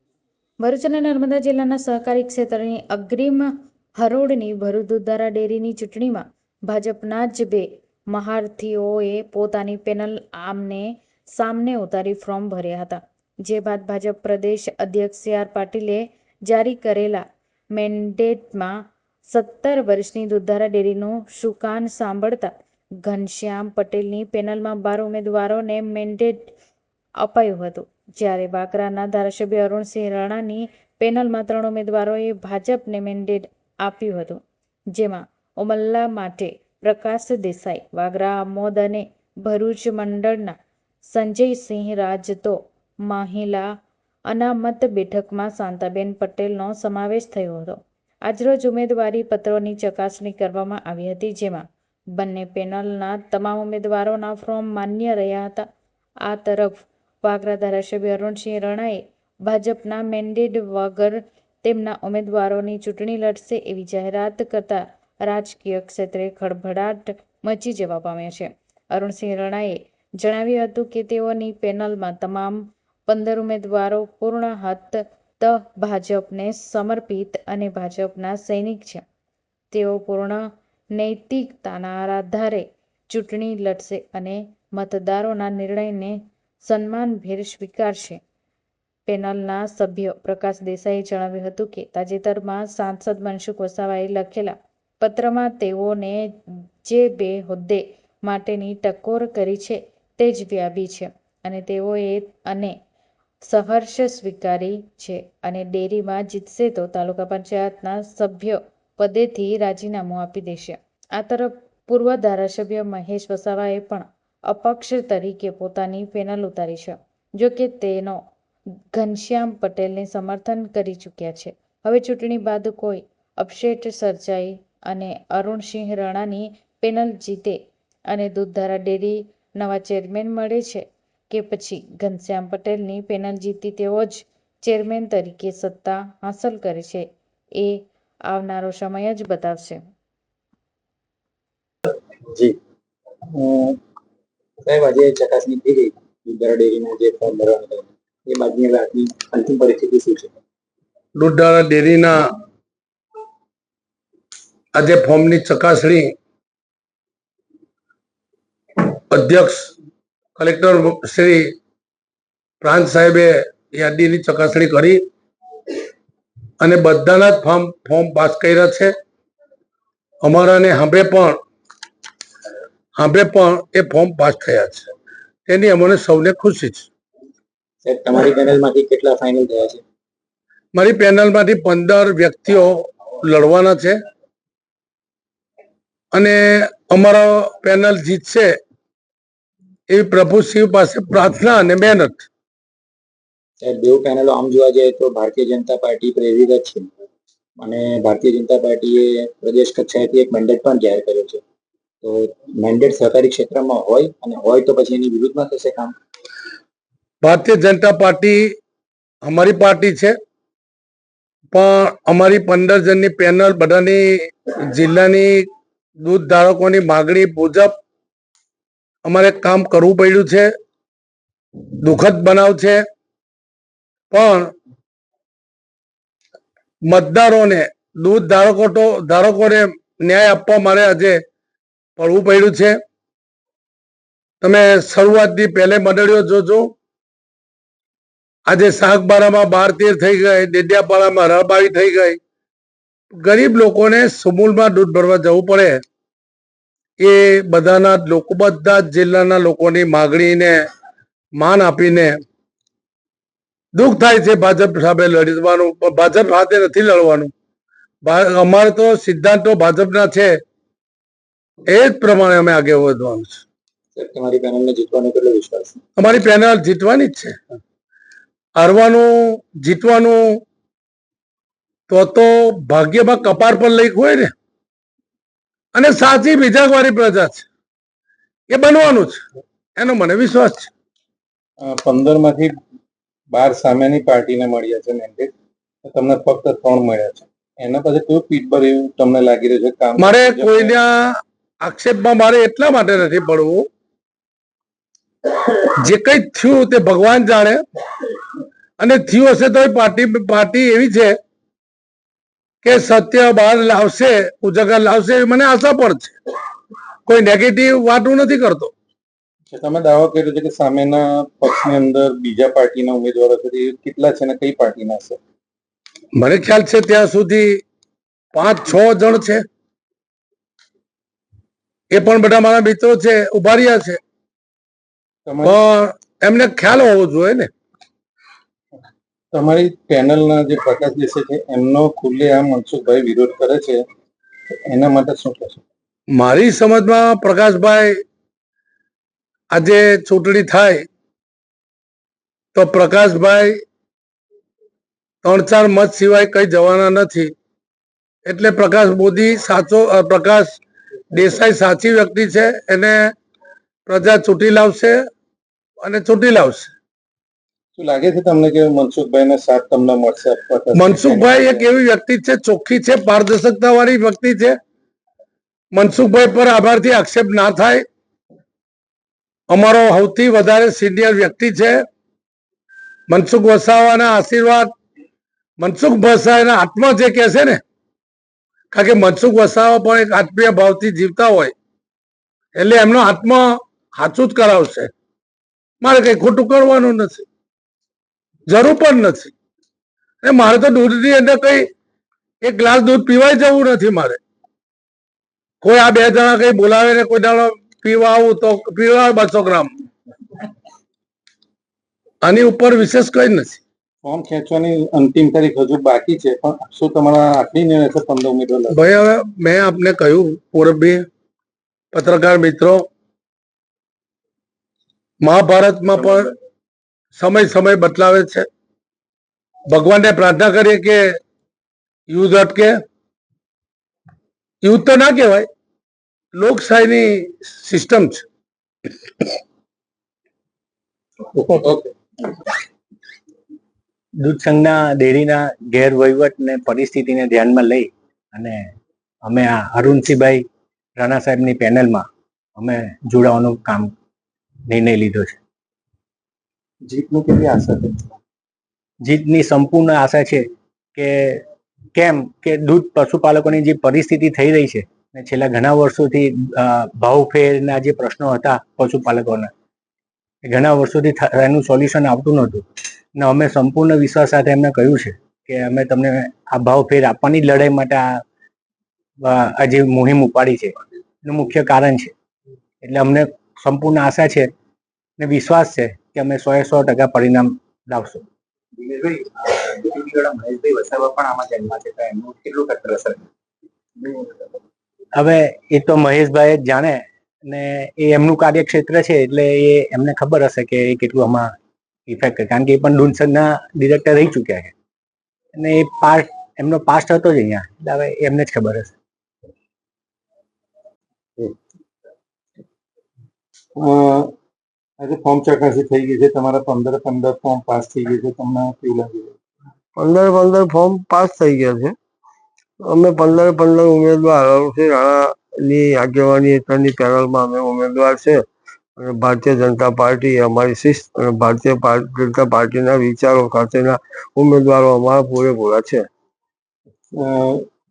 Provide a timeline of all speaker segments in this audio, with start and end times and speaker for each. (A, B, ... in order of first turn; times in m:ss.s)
0:00.6-0:18.8 A
0:19.3-0:22.5 A
0:23.0-0:26.5 A
0:27.2-0:34.4 A
0:34.9-0:40.6 A
0:41.1-0:43.7 A
0:44.3-0:51.6 A
0:52.2-0:55.6 A
0:56.3-1:19.0 A
1:19.7-1:20.4 A
1:21.0-1:28.2 A
1:29.1-1:36.3 A
1:36.9-1:42.8 A
1:43.5-1:58.2 A
1:58.9-2:07.6 A
2:08.1-2:17.1 A
2:18.3-2:19.8 A
2:23.4-2:23.8 B
2:24.6-2:30.4 B
2:31.2-2:32.4 C
2:34.8-2:36.1 C
2:39.1-2:39.7 C
2:40.4-2:41.5 C
2:42.6-2:45.0 C
2:46.6-2:48.9 C
2:50.2-2:51.4 C
2:53.0-2:54.9 C
2:55.5-2:56.9 C
2:57.8-2:59.8 B
3:00.8-3:04.0 C
3:06.1-3:08.5 C
3:09.9-3:12.2 C
3:13.6-3:16.9 B
3:17.6-3:21.4 B
3:22.0-3:26.0 B
3:27.2-3:28.4 C
3:29.2-3:30.2 C
3:31.5-3:34.1 C
3:34.7-3:35.4 C
3:36.0-3:37.7 C
3:39.0-3:40.5 C
3:41.8-3:42.8 C
3:44.1-3:44.5 C
3:46.9-3:51.2 C
3:52.0-3:52.8 C
3:54.4-3:56.7 C
3:58.5-4:02.2 C
4:03.2-4:05.8 C
4:07.0-4:10.6 C
4:11.4-4:12.2 C
4:13.8-4:17.3 C
4:18.0-4:20.4 C
4:21.7-4:23.4 C
4:24.0-4:25.8 B
4:26.0-4:27.4 C
4:28.6-4:30.4 C
4:31.9-4:34.3 C
4:35.8-4:37.5 C
4:38.5-4:39.2 C
4:39.8-4:40.7 C
4:41.6-4:42.5 D
4:43.3-4:45.3 D
4:45.8-4:50.8 D
4:50.0-4:53.7 C
4:55.5-4:57.6 C
4:58.8-5:01.2 C
5:02.6-5:06.1 C
5:07.1-5:08.7 C
5:09.5-5:15.2 D
5:16.2-5:17.6 C
5:18.3-5:19.4 C
5:21.9-5:24.0 C
5:25.3-5:25.6 D
5:25.4-5:27.5 C
5:29.3-5:33.8 D
5:34.7-5:35.6 D
5:36.1-5:38.0 C
5:39.5-5:40.9 C
5:42.5-5:43.6 C
5:45.2-5:47.3 C
5:48.3-5:50.6 C
5:51.1-5:53.1 C
5:53.9-5:55.0 C
5:55.8-5:56.7 C
5:57.8-6:01.7 D
6:00.7-6:04.6 C
6:05.7-6:07.8 C
6:09.5-6:11.8 C
6:13.1-6:14.7 C
6:15.6-6:17.6 C
6:18.7-6:21.5 C
6:22.6-6:24.9 C
6:25.8-6:27.2 C
6:28.5-6:29.3 C
6:30.2-6:31.7 C
6:32.4-6:34.2 C
6:35.6-6:39.7 C
6:42.2-6:43.6 C
6:44.0-6:48.8 D
6:48.7-6:51.0 C
6:51.9-6:52.9 C
6:55.2-6:56.3 C
6:57.2-6:58.5 C
6:59.7-7:01.0 C
7:02.1-7:02.8 C
7:04.6-7:05.5 C
7:06.3-7:08.2 C
7:11.4-7:11.9 D
7:14.2-7:18.6 E
7:19.2-7:20.4 E
7:21.0-7:23.9 E
7:24.7-7:25.4 E
7:26.9-7:28.1 D
7:29.0-7:30.4 E
7:31.0-7:31.4 E
7:32.0-7:39.5 E
7:40.5-7:42.6 E
7:43.2-7:48.2 E
7:49.2-7:52.1 E
7:52.8-7:54.5 E
7:55.2-7:58.2 E
7:58.8-8:03.3 B
8:05.2-8:11.5 E
8:12.1-8:14.7 E
8:15.6-8:18.9 E
8:23.8-8:24.3 D
8:25.0-8:29.4 D
8:30.0-8:32.0 F
8:32.8-8:38.4 F
8:39.0-8:46.1 F
8:47.1-8:47.6 D